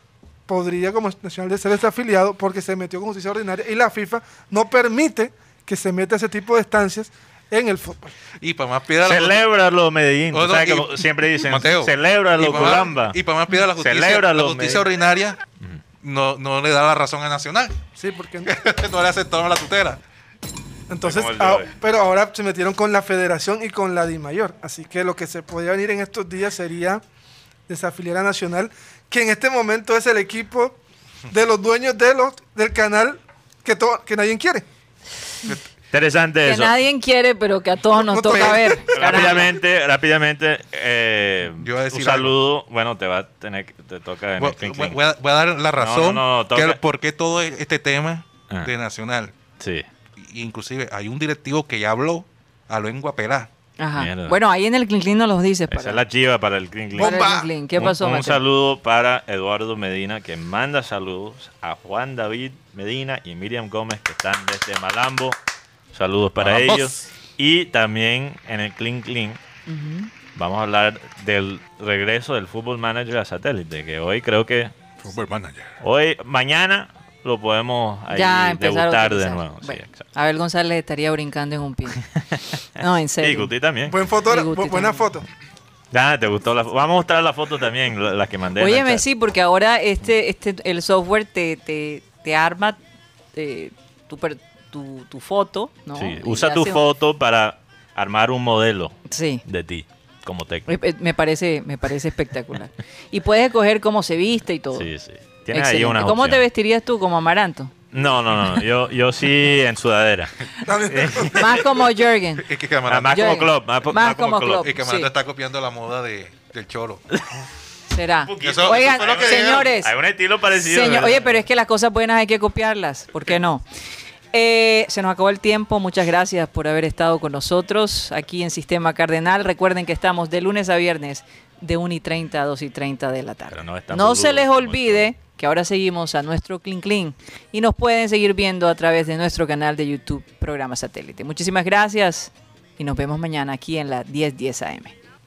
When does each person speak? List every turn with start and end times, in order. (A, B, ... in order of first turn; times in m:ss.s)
0:00.5-0:08.2 A
0:08.4-0:09.4 B
0:09.0-0:13.2 C
0:10.3-0:15.4 B
0:13.8-0:14.9 C
0:16.0-0:17.8 B
0:18.0-0:18.5 A
0:18.5-0:20.0 B
0:20.9-0:27.0 A
0:21.0-0:21.7 C
0:27.7-0:30.8 A
0:31.3-0:34.7 A
0:35.9-0:36.8 C
0:36.4-0:39.5 D
0:38.0-0:39.2 A
0:38.3-0:39.3 B
0:38.9-0:45.0 C
0:41.6-0:42.4 B
0:44.4-0:49.4 B
0:45.8-0:46.8 C
0:49.6-0:49.9 C
0:50.2-0:53.5 B
0:53.8-0:56.0 D
0:54.0-0:54.4 C
0:55.7-0:57.2 C
0:57.0-0:57.5 B
0:57.0-0:58.4 D
0:57.8-1:05.4 C
1:05.9-1:09.4 C
1:06.4-1:07.1 B
1:09.7-1:10.1 D
1:10.4-1:14.7 C
1:15.0-1:15.8 B
1:15.8-1:20.0 C
1:18.1-1:22.0 D
1:22.2-1:24.0 C
1:22.8-1:23.5 D
1:23.9-1:25.3 A
1:24.3-1:25.0 D
1:25.9-1:29.0 C
1:28.6-1:32.8 D
1:33.3-1:36.8 D
1:36.0-1:40.7 C
1:39.1-1:39.4 D
1:40.7-1:44.9 D
1:44.8-1:46.4 C
1:45.5-1:47.7 D
1:47.9-1:51.6 C
1:50.6-1:51.6 A
1:51.3-1:52.5 D
1:52.4-1:53.3 B
1:52.9-1:54.7 C
1:53.1-1:55.1 D
1:54.6-1:57.0 B
1:57.9-1:59.9 D
1:58.2-2:01.4 C
1:58.4-1:59.7 B
2:00.6-2:03.6 D
2:04.3-2:25.0 D
2:13.5-2:15.1 C